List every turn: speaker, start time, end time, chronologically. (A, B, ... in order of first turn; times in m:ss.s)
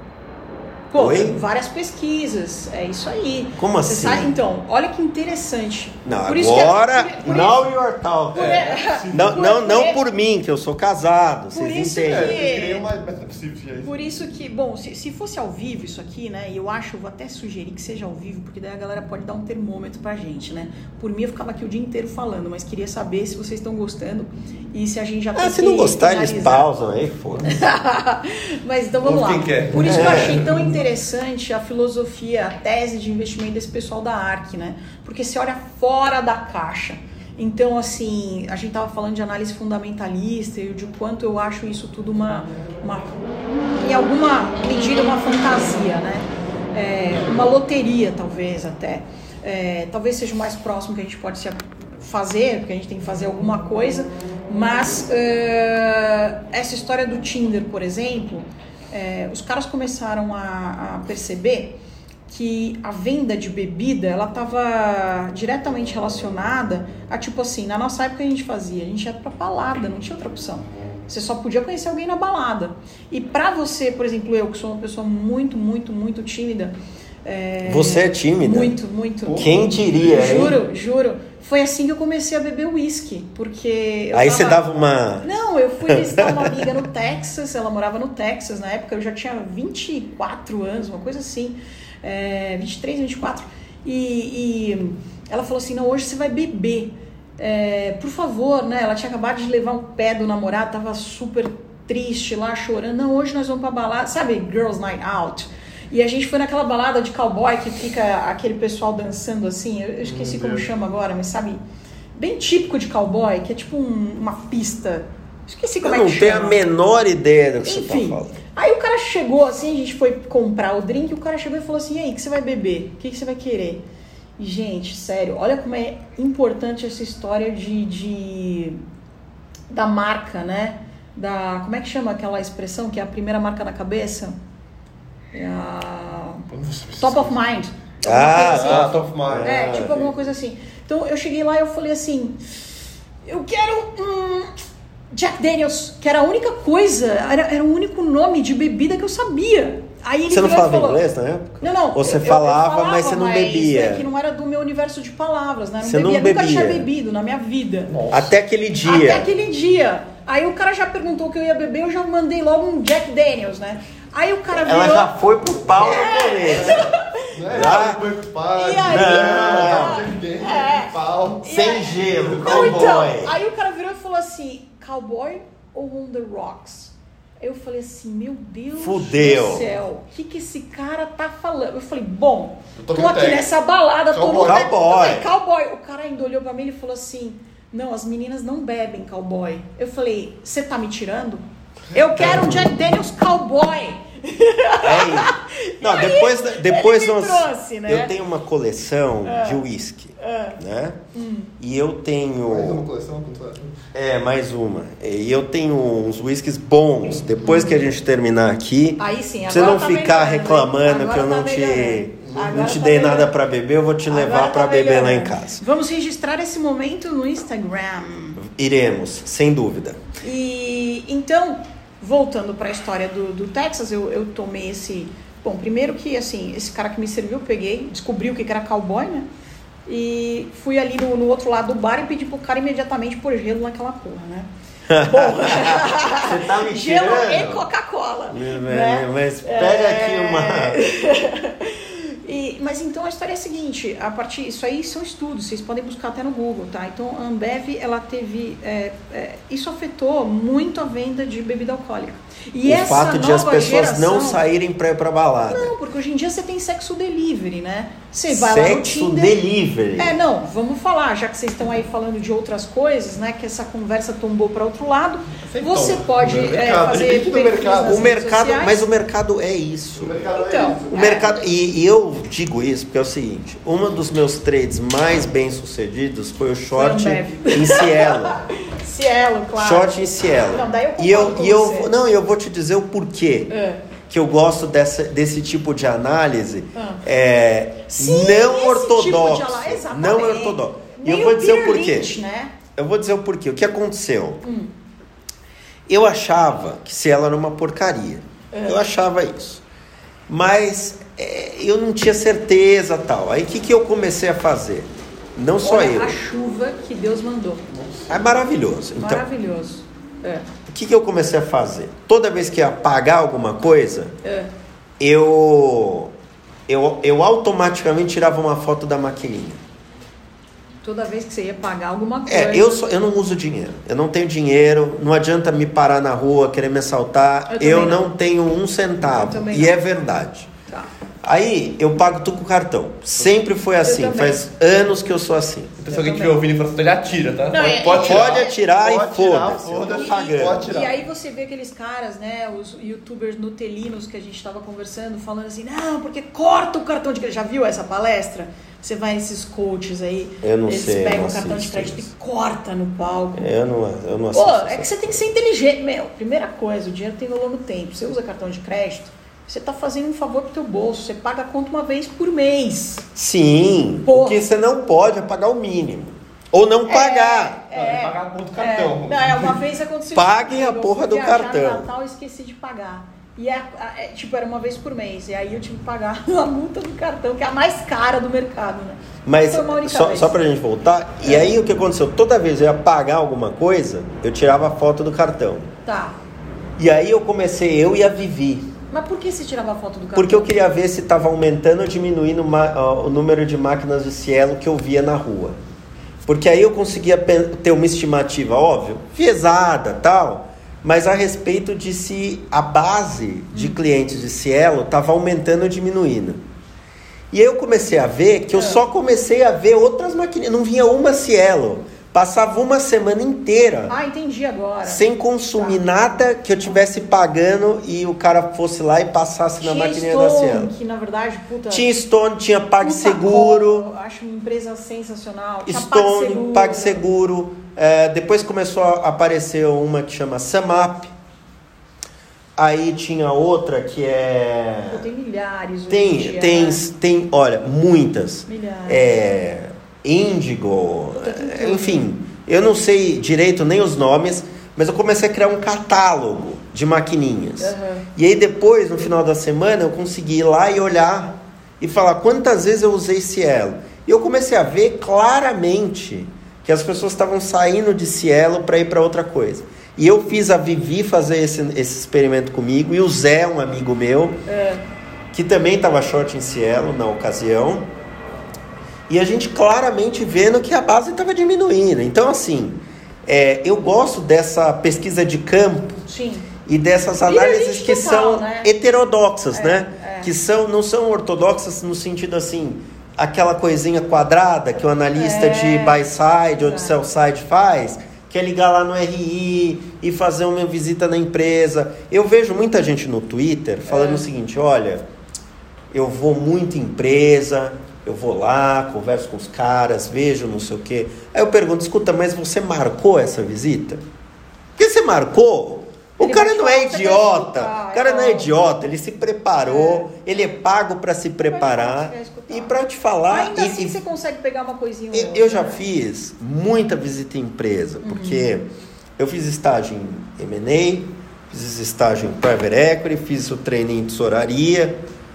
0:00.9-0:07.6 A
0:01.0-0:01.4 B
0:03.6-0:04.3 B
0:06.0-0:12.4 B
0:08.3-0:09.2 C
0:08.3-0:10.0 A
0:11.5-0:12.9 A
0:12.0-0:13.9 C
0:13.8-0:26.7 A
0:25.4-0:27.7 B
0:27.4-0:43.2 A
0:29.0-0:30.8 C
0:29.8-0:30.4 B
0:43.8-1:24.6 A
1:17.6-1:18.8 B
1:19.3-1:20.2 C
1:19.3-1:20.6 B
1:24.1-1:25.3 B
1:25.2-1:51.6 A
1:25.9-1:26.7 B
1:50.0-1:50.7 C
1:52.1-1:56.6 A
1:55.8-1:58.4 B
1:57.6-2:03.8 A
2:04.4-2:08.8 A
2:09.7-2:14.4 A
2:15.3-2:16.5 A
2:16.5-2:17.4 C
2:17.0-2:22.4 A
2:18.0-2:20.1 B
2:18.5-2:19.6 C
2:23.2-2:24.5 A
2:25.1-2:31.0 A
2:30.3-2:34.1 B
2:31.6-2:38.0 A
2:35.8-2:36.9 B
2:37.9-2:38.3 C
2:38.1-2:39.3 B
2:38.8-2:45.1 A
2:44.5-2:46.9 B
2:45.8-2:47.6 A
2:47.3-2:51.5 C
2:47.5-2:48.0 B
2:48.5-3:18.1 A
2:48.9-2:50.1 B
2:51.4-2:53.4 B
2:52.1-2:53.0 C
2:58.8-2:59.7 B
3:02.8-3:03.5 C
3:04.1-3:04.6 C
3:04.4-3:05.2 B
3:12.2-3:12.7 B
3:14.8-3:21.0 B
3:19.2-3:19.6 A
3:20.2-3:20.6 A
3:21.1-3:21.5 A
3:21.6-3:22.8 B
3:22.5-3:23.8 C
3:23.9-3:35.6 B
3:27.4-3:27.8 A
3:29.0-3:33.3 A
3:34.1-3:38.4 A
3:38.4-3:40.0 B
3:40.2-3:49.3 A
3:49.9-3:54.5 A
3:54.9-3:57.6 B
3:55.0-4:14.4 A
3:58.3-4:00.8 B
4:12.6-4:15.7 B
4:15.5-4:19.4 A
4:18.3-4:20.2 B
4:20.0-4:28.8 A
4:25.4-4:28.0 C
4:27.8-4:30.2 B
4:30.0-4:31.2 C
4:30.4-4:31.3 A
4:30.9-4:38.4 B
4:36.7-4:41.9 A
4:39.6-4:43.5 B
4:43.5-4:43.9 A
4:44.1-4:52.1 B
4:46.8-4:47.0 A
4:47.9-4:52.6 A
4:52.8-4:54.4 B
4:54.4-4:54.7 A
4:55.9-4:59.6 B
4:58.5-4:58.8 A
5:00.3-5:06.2 B
5:05.6-5:07.6 A
5:07.8-5:08.1 C
5:08.1-5:09.2 B
5:09.0-5:10.5 A
5:10.7-5:14.2 B
5:14.2-5:14.5 A
5:15.0-5:16.1 B
5:16.7-5:19.6 B
5:20.8-5:22.8 A
5:22.3-5:30.5 B
5:27.5-5:28.1 A
5:29.0-5:29.8 A
5:31.2-5:35.8 B
5:33.8-5:34.5 A
5:35.8-5:40.9 C
5:35.9-5:36.4 A
5:37.5-5:38.6 A
5:38.0-5:40.7 B
5:39.9-5:53.5 A
5:50.4-5:52.1 B
5:53.4-5:55.2 B
5:54.3-6:03.1 A
6:03.2-6:07.6 B
6:04.0-6:04.5 A
6:06.9-6:20.4 A
6:07.7-6:09.6 C
6:10.1-6:11.9 B
6:19.2-6:25.7 B
6:21.2-6:21.6 A
6:25.8-6:26.2 A
6:26.8-6:28.7 B
6:28.9-6:30.5 A
6:30.2-6:35.6 B
6:36.3-6:46.4 B
6:43.5-6:43.8 A
6:47.3-6:54.0 B
6:48.5-6:48.8 A
6:53.9-6:56.1 A
6:54.8-7:00.7 B
6:59.6-7:01.9 A
7:01.7-7:03.9 B
7:02.8-7:07.0 A
7:05.7-7:11.1 B
7:12.6-7:15.1 B
7:14.9-7:16.8 A
7:15.9-7:44.4 B
7:18.5-7:19.1 A
7:21.2-7:22.1 A
7:27.6-7:28.1 A
7:44.5-7:44.8 A
7:45.3-7:47.9 B
7:49.1-7:56.0 B
7:56.1-7:56.5 A
7:56.7-8:15.0 B
7:57.3-7:58.7 A
7:59.5-8:00.3 A
8:05.2-8:06.0 A
8:06.5-8:07.0 A
8:13.9-8:14.3 A
8:15.9-8:24.0 B
8:24.8-8:34.0 B
8:26.2-8:28.6 A
8:29.6-8:30.1 A
8:31.4-8:32.8 A
8:33.3-8:35.8 A
8:35.1-8:45.0 B
8:38.0-8:38.5 A